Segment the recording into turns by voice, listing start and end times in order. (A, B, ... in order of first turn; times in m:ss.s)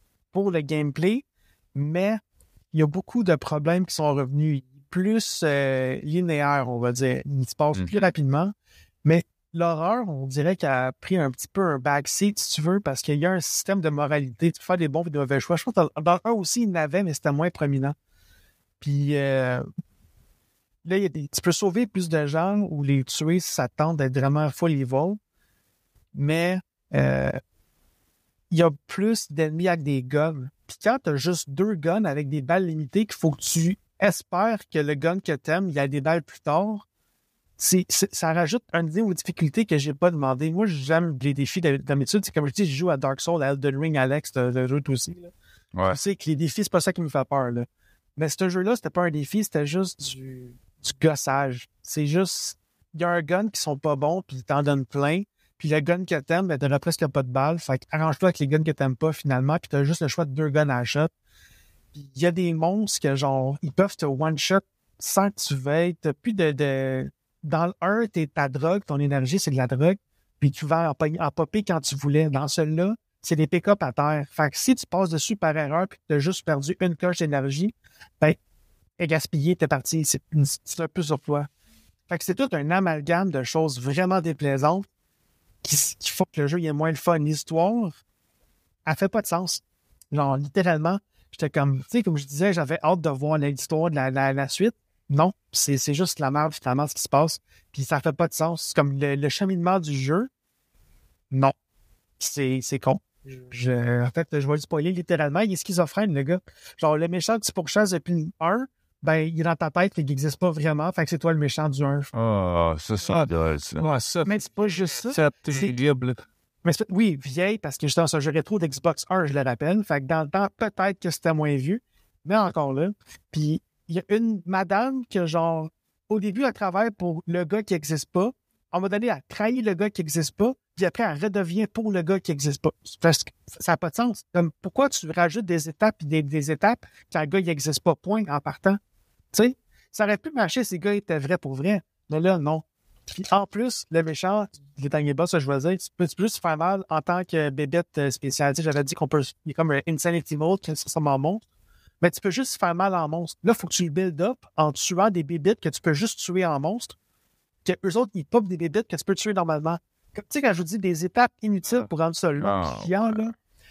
0:00.3-0:02.2 A
0:02.7-0:08.5 A
0:09.0-0:18.0 A
0:18.8-0:19.6 A
0:20.8-0:25.2 A
0:26.1-0:27.4 A
0:28.5-0:36.8 A
0:37.6-0:45.3 A
0:45.7-0:46.0 B
0:45.9-1:01.1 A
1:01.9-1:18.4 A
1:19.0-1:21.5 A
1:22.1-1:24.9 A
1:25.6-1:28.0 A
1:28.8-1:40.3 A
1:42.2-1:52.1 A
1:52.1-1:53.8 B
1:53.1-1:54.4 C
1:54.2-1:55.8 A
1:55.0-1:56.2 C
1:56.6-2:18.8 A
2:19.3-2:31.4 A
2:32.0-2:36.9 A
2:37.6-2:43.3 A
2:42.4-2:43.2 B